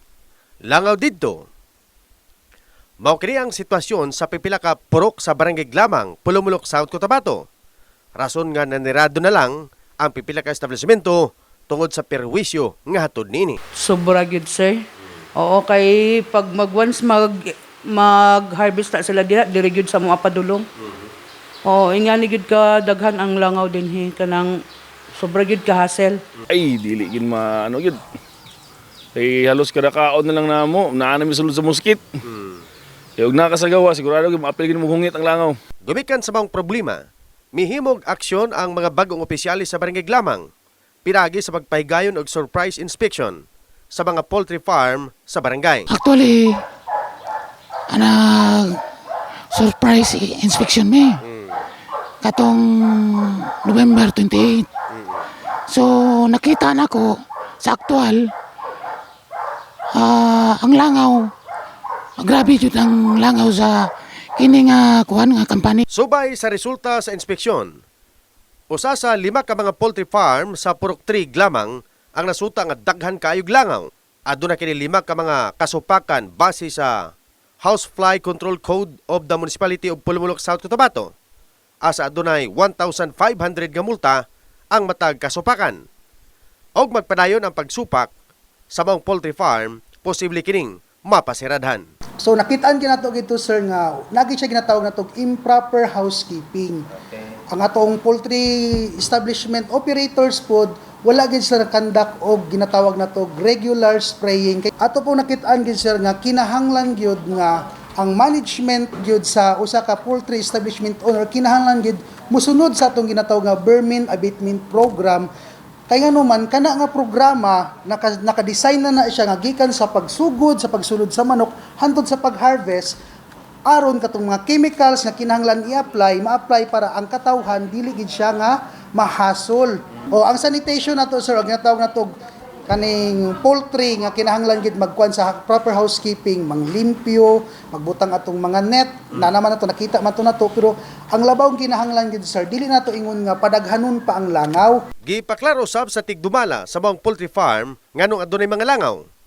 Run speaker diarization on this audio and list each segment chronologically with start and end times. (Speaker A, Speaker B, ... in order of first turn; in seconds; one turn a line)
Speaker A: 0.7-1.4
Speaker A: 3.0-7.5
Speaker A: 8.2-13.6
Speaker B: 13.8-14.8
Speaker B: 15.4-17.4
Speaker B: 17.9-20.6
Speaker B: 21.6-24.5
Speaker B: 25.2-26.2
Speaker C: 26.5-28.0
Speaker C: 29.1-32.0
Speaker C: 33.2-35.5
Speaker A: 35.8-37.0
Speaker A: 37.5-40.5
Speaker A: 41.0-45.9
Speaker D: 45.9-46.6
Speaker D: 47.9-48.8
Speaker D: 49.5-51.2
Speaker D: 52.2-54.7
Speaker A: 54.9-55.2
Speaker D: 55.7-58.3
Speaker D: 59.9-61.3
Speaker D: 62.2-63.9
Speaker D: 64.4-65.8
Speaker A: 65.9-67.8
Speaker A: 68.7-77.0
Speaker A: 77.6-81.1
Speaker A: 81.8-84.2
Speaker A: 84.7-85.8
Speaker A: 86.8-88.1
Speaker A: 88.7-91.9
Speaker E: 92.2-96.8
Speaker E: 97.5-115.3
Speaker E: 115.9-122.9
Speaker E: 123.7-132.1
Speaker E: 132.7-144.8
Speaker A: 145.0-149.1